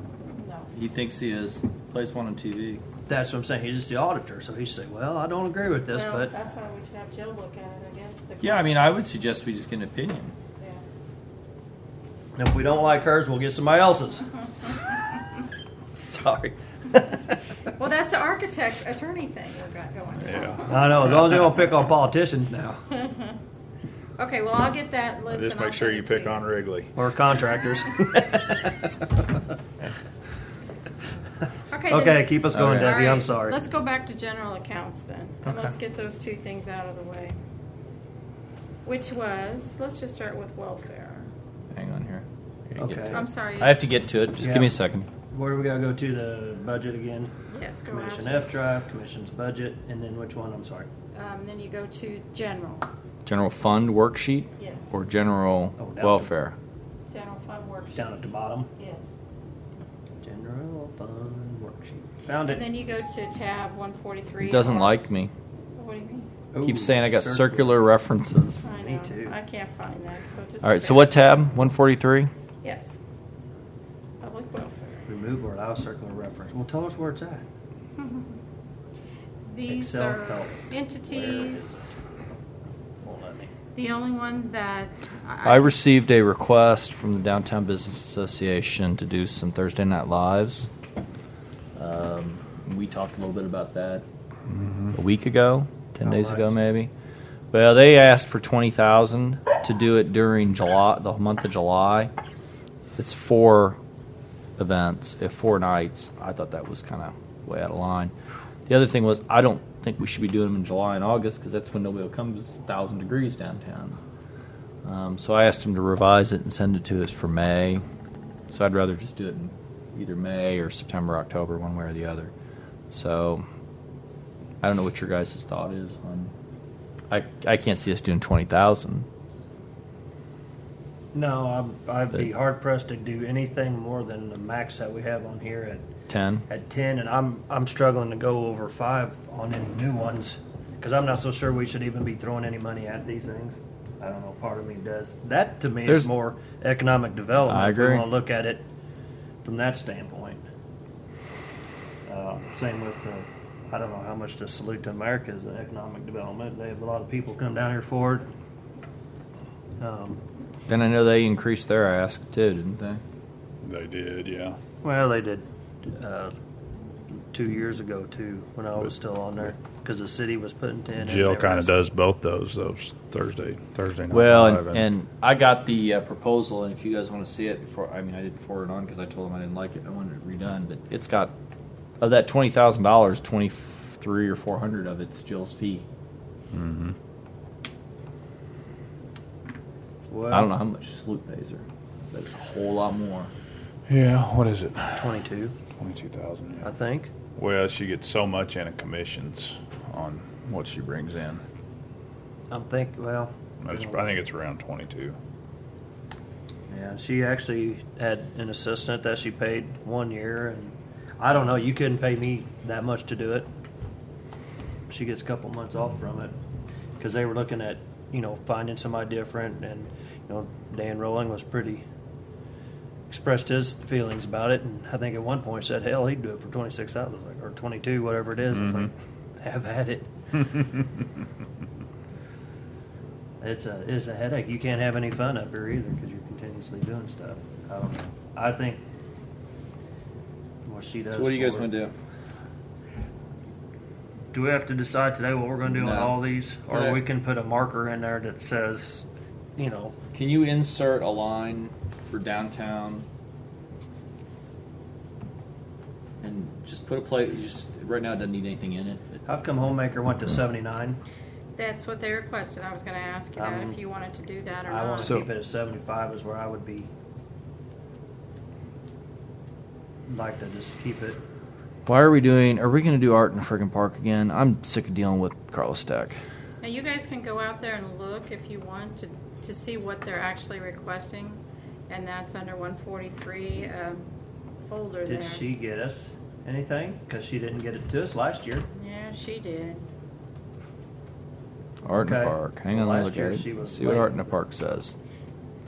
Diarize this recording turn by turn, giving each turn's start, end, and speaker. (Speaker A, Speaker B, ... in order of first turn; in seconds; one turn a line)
Speaker A: 0.3-0.7
Speaker B: 0.7-2.8
Speaker C: 3.1-6.3
Speaker A: 5.9-8.7
Speaker B: 8.4-10.3
Speaker A: 10.6-10.8
Speaker C: 12.4-14.3
Speaker C: 16.1-17.2
Speaker A: 17.8-20.8
Speaker D: 20.3-20.7
Speaker C: 20.6-22.8
Speaker A: 22.9-23.4
Speaker A: 24.2-26.4
Speaker D: 25.3-26.9
Speaker C: 26.9-28.8
Speaker A: 31.7-37.4
Speaker C: 31.9-33.6
Speaker A: 38.9-41.3
Speaker B: 41.7-45.1
Speaker C: 42.8-43.2
Speaker A: 43.1-43.9
Speaker C: 44.4-44.8
Speaker C: 45.3-47.3
Speaker A: 47.5-48.5
Speaker C: 47.9-50.9
Speaker A: 51.1-52.9
Speaker B: 53.2-56.6
Speaker A: 54.6-54.9
Speaker C: 55.8-56.3
Speaker A: 57.1-58.1
Speaker C: 58.0-58.7
Speaker A: 58.8-59.1
Speaker C: 60.2-62.7
Speaker A: 62.5-65.0
Speaker B: 64.4-65.3
Speaker A: 65.8-66.3
Speaker C: 66.5-68.0
Speaker B: 66.6-68.7
Speaker A: 68.6-71.4
Speaker C: 68.8-69.3
Speaker B: 70.6-72.3
Speaker A: 72.6-73.0
Speaker A: 74.2-75.1
Speaker C: 75.1-77.4
Speaker A: 78.0-78.3
Speaker A: 79.5-81.8
Speaker C: 79.7-81.8
Speaker C: 83.0-83.5
Speaker A: 83.8-85.8
Speaker B: 85.4-90.7
Speaker B: 91.8-94.0
Speaker D: 94.5-94.9
Speaker B: 94.9-96.9
Speaker C: 96.0-96.5
Speaker B: 97.5-102.1
Speaker B: 103.0-103.8
Speaker B: 104.6-108.1
Speaker B: 108.7-114.0
Speaker B: 114.8-117.8
Speaker B: 118.5-122.3
Speaker B: 122.9-123.4
Speaker B: 124.6-126.3
Speaker B: 127.1-129.1
Speaker C: 131.1-135.9
Speaker B: 136.1-136.4
Speaker C: 136.5-148.7
Speaker B: 147.5-148.1
Speaker C: 149.4-150.4
Speaker C: 152.1-158.3
Speaker C: 159.8-160.2
Speaker B: 160.7-163.0
Speaker D: 163.6-164.6
Speaker C: 164.8-166.3
Speaker C: 167.3-171.8
Speaker D: 171.0-174.8
Speaker B: 174.1-181.3
Speaker B: 182.0-185.8
Speaker D: 186.5-186.9
Speaker C: 190.1-190.6
Speaker B: 190.3-193.3
Speaker D: 193.9-195.1
Speaker C: 195.0-195.6
Speaker D: 195.8-196.7
Speaker C: 196.6-197.1
Speaker D: 197.4-201.4
Speaker C: 202.5-204.2
Speaker D: 203.6-205.2
Speaker C: 206.7-213.5
Speaker C: 214.9-216.3
Speaker C: 217.0-221.8
Speaker C: 223.1-230.7
Speaker C: 233.4-238.8
Speaker C: 240.7-241.7
Speaker B: 241.1-241.9
Speaker C: 244.3-249.9
Speaker B: 245.7-246.2
Speaker B: 246.7-247.0
Speaker B: 250.1-253.1
Speaker B: 256.2-259.2
Speaker C: 259.3-261.0
Speaker A: 261.6-265.2
Speaker C: 263.4-263.8
Speaker C: 264.7-266.9
Speaker C: 270.1-271.2
Speaker B: 271.9-276.2
Speaker A: 276.6-284.1
Speaker A: 284.6-285.5
Speaker C: 285.1-288.7
Speaker A: 288.8-289.8
Speaker B: 291.9-294.9
Speaker C: 291.9-294.4